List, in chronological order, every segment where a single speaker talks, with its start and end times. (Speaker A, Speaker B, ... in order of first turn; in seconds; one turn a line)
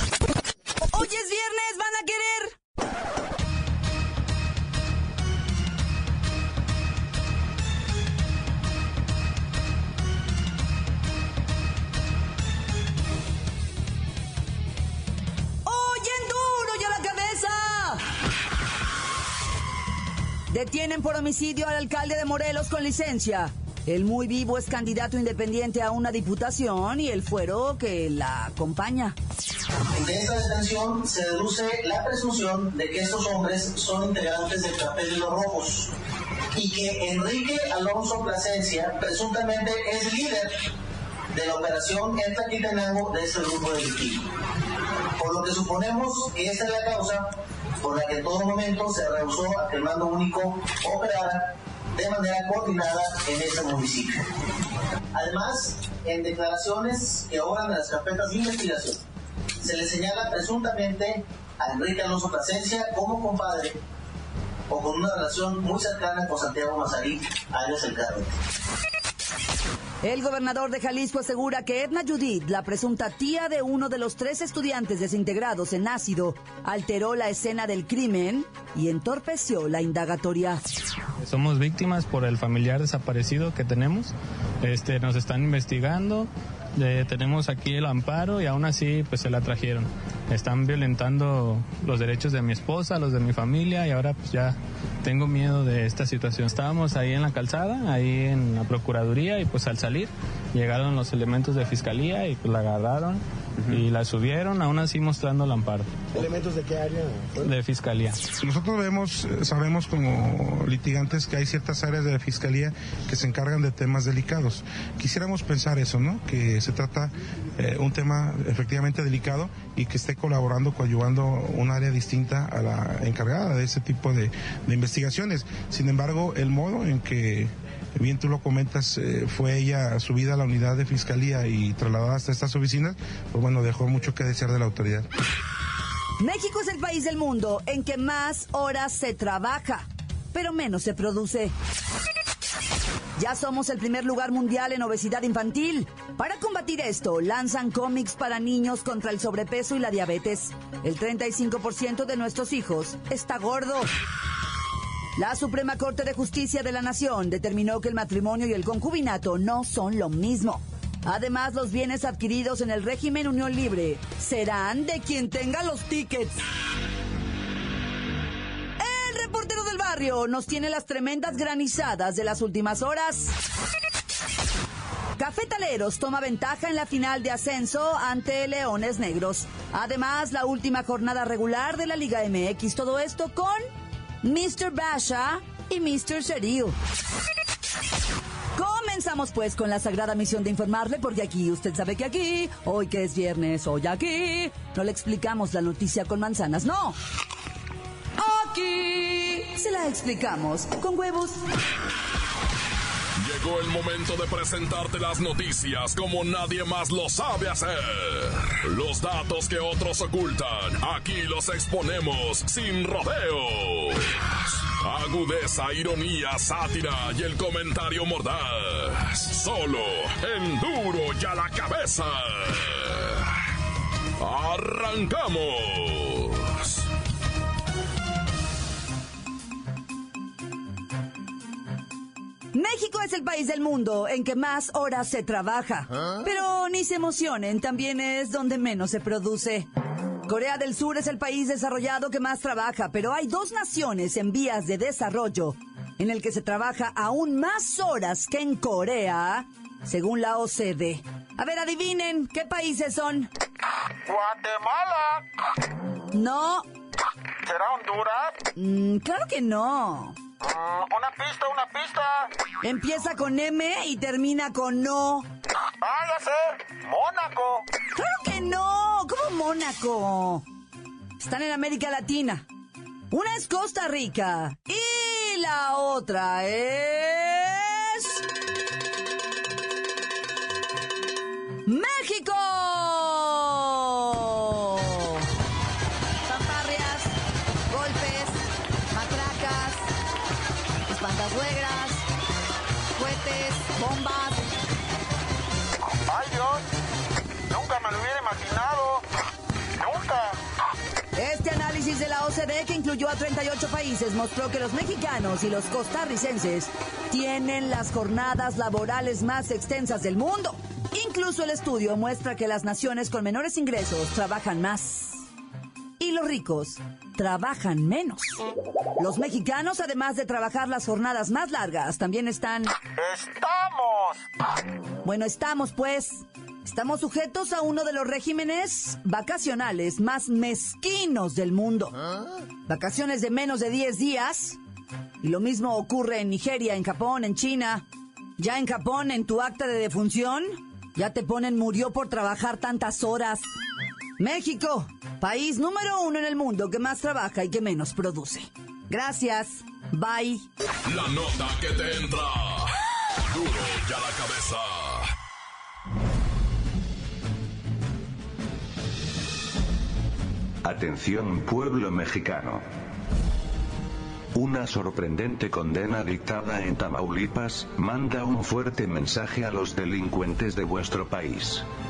Speaker A: 0.9-2.6
Speaker A: 15.7-18.0
Speaker A: 20.5-29.1
Speaker B: 29.9-35.9
Speaker B: 36.5-40.6
Speaker B: 41.3-44.2
Speaker B: 45.2-54.3
Speaker B: 55.1-59.0
Speaker B: 59.6-63.8
Speaker B: 64.7-68.3
Speaker A: 70.0-80.6
Speaker C: 81.2-106.5
Speaker C: 107.3-108.2
Speaker D: 108.4-135.1
Speaker A: 136.2-141.5
Speaker A: 143.2-153.9
Speaker A: 155.2-166.4
Speaker A: 168.8-173.3
Speaker A: 175.2-183.7
Speaker A: 184.2-186.8
Speaker A: 188.6-197.0
Speaker A: 198.2-201.4
Speaker E: 203.2-223.3
Speaker E: 224.2-226.8
Speaker A: 232.5-239.7
Speaker A: 240.3-253.3
Speaker F: 254.1-255.2
Speaker A: 256.1-256.6
Speaker F: 257.4-258.4
Speaker A: 258.6-260.2
Speaker F: 260.5-262.3
Speaker A: 262.6-265.3
Speaker F: 265.8-267.6
Speaker A: 267.9-270.4
Speaker A: 271.2-272.4
Speaker A: 273.1-278.2
Speaker A: 281.6-285.2
Speaker A: 286.2-287.1
Speaker A: 287.7-289.9
Speaker A: 290.9-292.1
Speaker A: 292.9-294.4
Speaker F: 296.0-296.6
Speaker F: 297.5-299.0
Speaker F: 299.8-300.3
Speaker A: 301.2-315.2
Speaker A: 316.0-318.4
Speaker A: 319.0-322.7
Speaker F: 323.0-324.2
Speaker A: 325.0-331.9
Speaker A: 332.7-334.6
Speaker A: 335.2-337.8
Speaker A: 338.4-343.5
Speaker A: 344.2-350.5
Speaker E: 350.9-352.8
Speaker E: 353.3-355.1
Speaker G: 360.6-362.6
Speaker G: 364.3-371.6